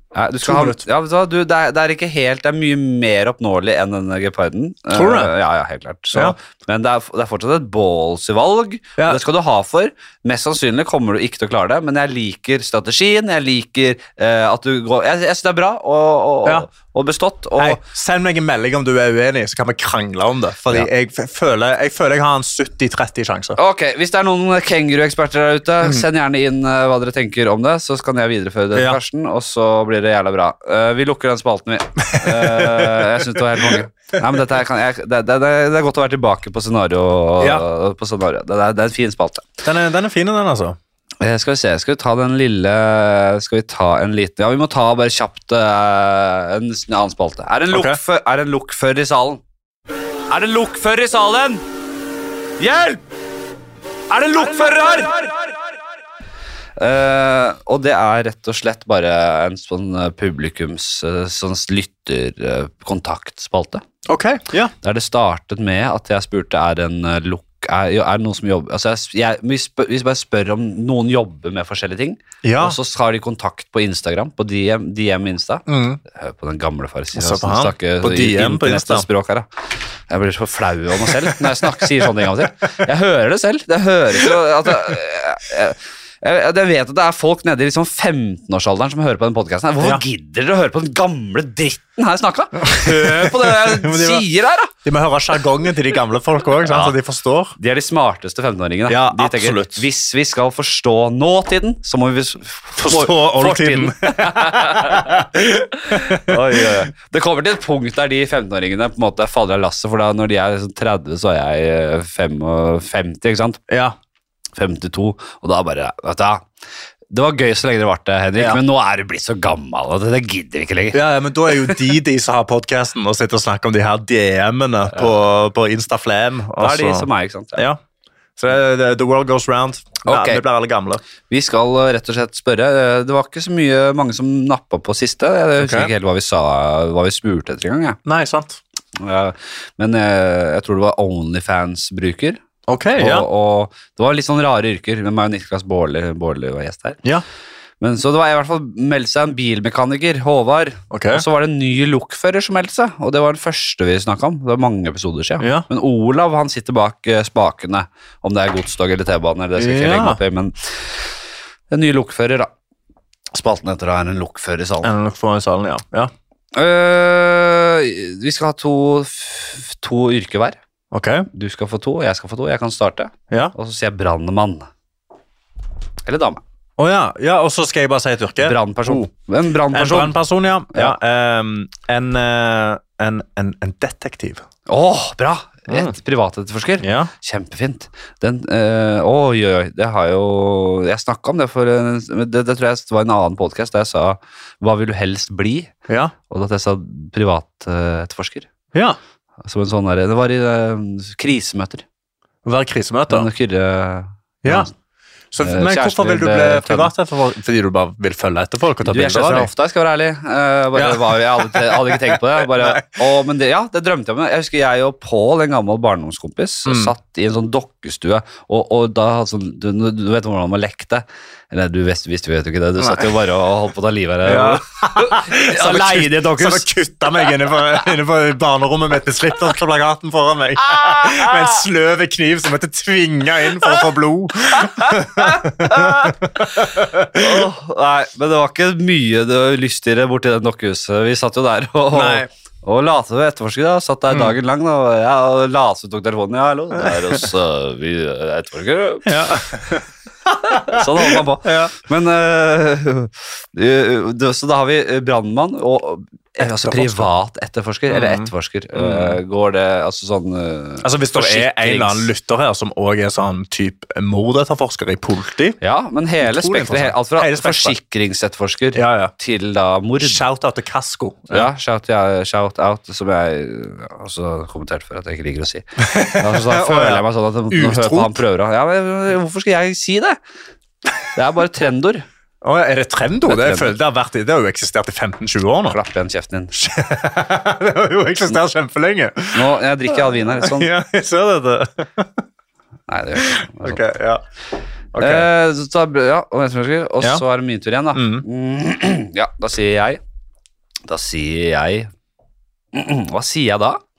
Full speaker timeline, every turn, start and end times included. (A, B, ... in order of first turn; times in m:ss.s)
0:00.1-0:17.8 A
0:00.4-0:00.8 B
0:04.9-0:05.3 B
0:17.6-0:23.6 B
0:23.6-0:39.5 A
0:28.7-0:29.0 B
0:32.0-0:33.8 B
0:37.4-0:37.6 B
0:39.6-0:40.8 B
0:41.2-0:49.4 A
0:47.7-0:48.0 B
0:50.3-0:51.6 A
0:52.6-0:53.0 A
0:54.1-0:55.5 A
0:56.8-1:03.8 A
1:04.0-1:04.7 B
1:04.8-1:19.4 A
1:12.4-1:12.8 B
1:15.7-1:16.0 B
1:17.1-1:19.1 B
1:20.1-1:34.7 A
1:21.0-1:22.1 B
1:32.6-1:34.3 B
1:34.8-1:37.5 B
1:36.6-1:36.9 A
1:37.6-1:53.6 A
1:38.9-1:39.8 B
1:42.8-1:46.8 B
1:53.7-1:53.9 B
1:54.5-1:56.4 A
1:57.1-2:01.0 A
2:00.9-2:07.8 B
2:06.6-2:07.6 A
2:08.4-2:11.0 B
2:10.0-2:10.4 A
2:11.3-2:18.0 A
2:15.6-2:15.9 B
2:18.0-2:18.6 B
2:19.0-2:22.4 A
2:22.7-2:23.3 B
2:23.0-2:27.0 A
2:27.8-2:41.1 A
2:30.9-2:31.2 B
2:35.4-2:35.7 B
2:39.6-2:40.2 B
2:41.7-2:42.5 A
2:43.3-2:44.9 A
2:44.8-2:46.1 B
2:46.5-2:50.6 A
2:50.9-2:51.3 B
2:51.3-2:54.7 A
2:56.0-2:56.4 A
2:56.8-2:59.1 B
2:58.4-3:00.2 A
2:59.7-3:04.4 B
3:04.7-3:15.7 A
3:05.7-3:05.9 B
3:06.8-3:07.1 B
3:15.9-3:16.1 B
3:16.3-3:18.5 A
3:18.7-3:19.0 B
3:19.4-3:21.8 A
3:22.4-3:23.3 B
3:23.1-3:24.7 A
3:24.4-3:24.7 B
3:25.3-3:29.5 B
3:25.4-3:26.9 A
3:28.8-3:46.7 A
3:30.7-3:32.8 B
3:36.6-3:36.9 B
3:42.8-3:43.2 B
3:44.2-3:57.5 B
3:47.2-3:47.5 A
3:50.7-3:51.5 A
3:54.6-4:09.2 A
4:01.9-4:02.3 B
4:06.8-4:07.2 B
4:09.0-4:11.7 B
4:10.5-4:22.1 A
4:16.4-4:17.1 B
4:17.9-4:19.2 B
4:20.8-4:25.6 B
4:25.6-4:30.2 A
4:26.2-4:27.8 B
4:28.7-4:29.1 B
4:30.0-4:31.5 B
4:31.3-4:40.2 A
4:35.8-4:38.2 B
4:41.1-4:42.0 A
4:42.4-4:45.8 B
4:43.2-4:43.7 A
4:45.7-4:46.5 A
4:46.5-4:52.2 B
4:49.3-4:50.7 A
4:52.9-4:53.8 A
4:53.2-4:54.2 B
4:54.9-4:55.3 B
4:55.0-5:00.0 A
4:57.9-4:58.2 B
5:00.9-5:01.9 A
5:02.7-5:03.8 A